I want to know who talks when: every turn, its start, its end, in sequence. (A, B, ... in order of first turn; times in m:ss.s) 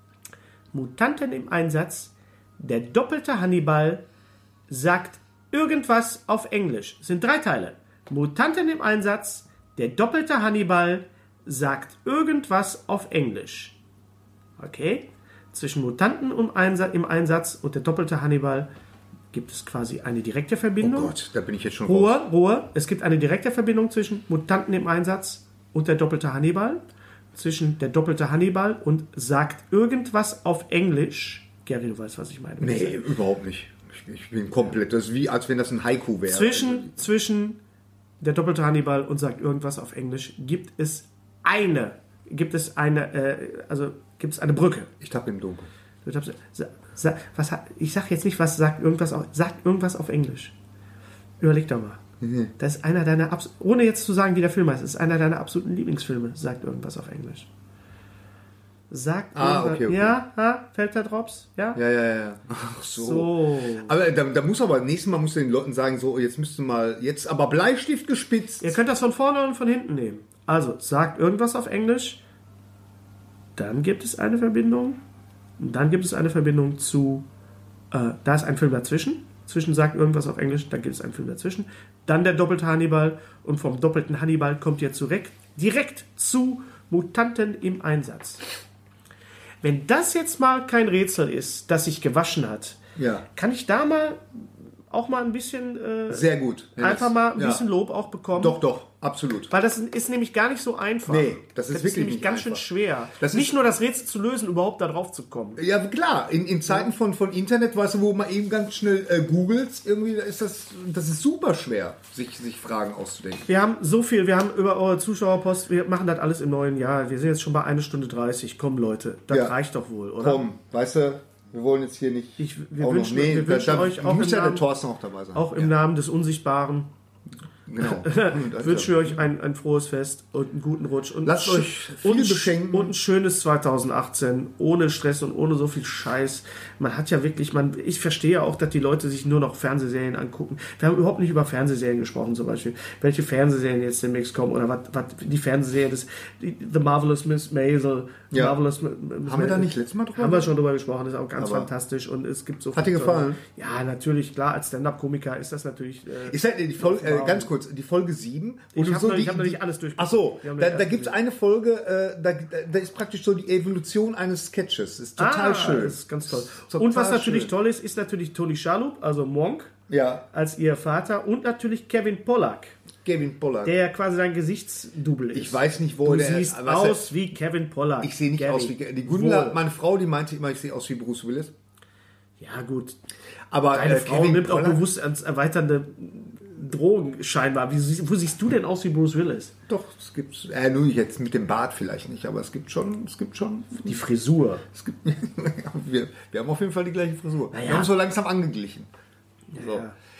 0:00.7-0:04.0 A
0:04.7-0:13.8 A
0:14.6-0:18.7 A
0:19.3-0:21.1 A
0:20.8-0:22.2 B
0:21.8-0:26.8 A
0:27.3-0:33.0 A
0:32.6-0:36.9 B
0:36.3-0:37.6 A
0:38.2-0:44.9 A
0:45.0-0:45.7 B
0:46.0-0:50.5 A
0:51.4-0:52.0 A
0:52.2-0:52.5 B
0:52.6-0:57.5 A
0:58.9-1:01.8 A
0:59.3-1:00.2 B
1:01.7-1:08.8 B
1:02.9-1:03.9 A
1:08.6-1:12.2 A
1:13.6-1:15.0 A
1:15.6-1:17.3 A
1:17.9-1:28.4 A
1:29.6-1:32.8 A
1:33.0-1:33.2 B
1:33.3-1:38.6 A
1:36.1-1:37.6 B
1:38.3-1:39.5 B
1:39.5-1:45.6 A
1:41.1-1:42.6 B
1:43.2-1:43.6 B
1:45.6-1:53.5 B
1:53.5-2:00.5 A
1:59.3-1:59.5 B
2:00.2-2:05.8 B
2:02.4-2:04.6 A
2:05.3-2:06.9 A
2:07.7-2:09.2 B
2:07.8-2:37.5 A
2:11.2-2:12.9 B
2:28.3-2:28.6 B
2:29.2-2:30.5 B
2:31.4-2:31.7 B
2:32.7-2:33.4 B
2:36.2-2:47.5 B
2:38.7-2:41.1 A
2:45.2-2:49.8 A
2:49.9-2:50.2 B
2:50.3-2:52.7 A
2:53.0-2:53.8 B
2:53.6-2:59.6 A
2:55.3-2:57.1 B
2:58.0-3:01.5 B
3:02.4-3:03.0 A
3:03.5-3:04.8 B
3:03.7-3:09.5 A
3:09.7-3:14.0 B
3:13.8-3:14.6 A
3:14.7-3:18.9 B
3:17.5-3:17.9 A
3:19.5-3:19.9 A
3:19.6-3:19.8 B